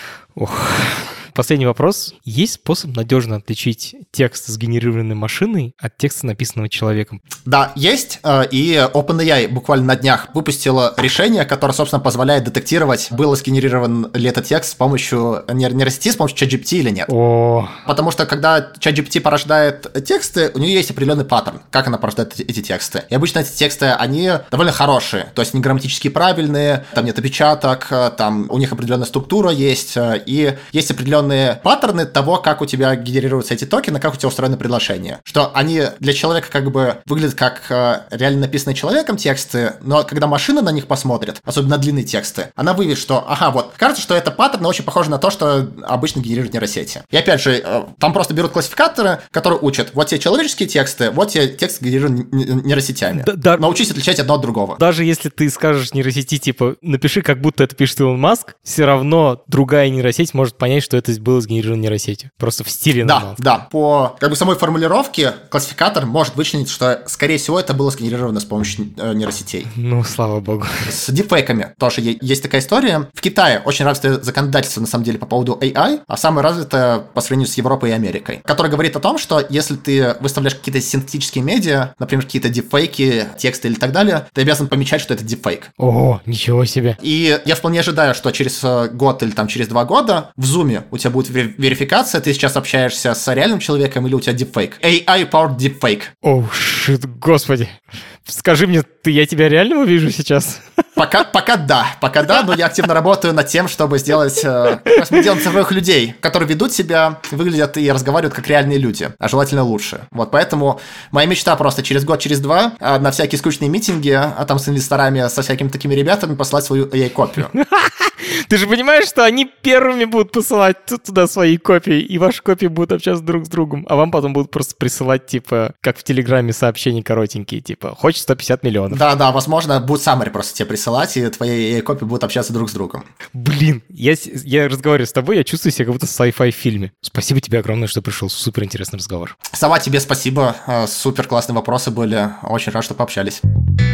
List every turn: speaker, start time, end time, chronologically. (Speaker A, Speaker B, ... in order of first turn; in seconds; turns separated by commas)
Speaker A: 0.4-7.2, Speaker B: 7.5-17.1, Speaker A: 17.1-17.8, Speaker B: 17.9-54.8, Speaker A: 53.1-53.6, Speaker A: 54.8-63.4, Speaker B: 63.0-69.7, Speaker A: 69.7-70.9, Speaker B: 70.9-85.7, Speaker A: 85.8-87.0, Speaker B: 87.0-96.1, Speaker A: 96.2-100.6, Speaker B: 101.0-117.5, Speaker A: 117.5-129.0, Speaker B: 128.9-133.1, Speaker A: 133.3-139.4, Speaker B: 139.5-143.4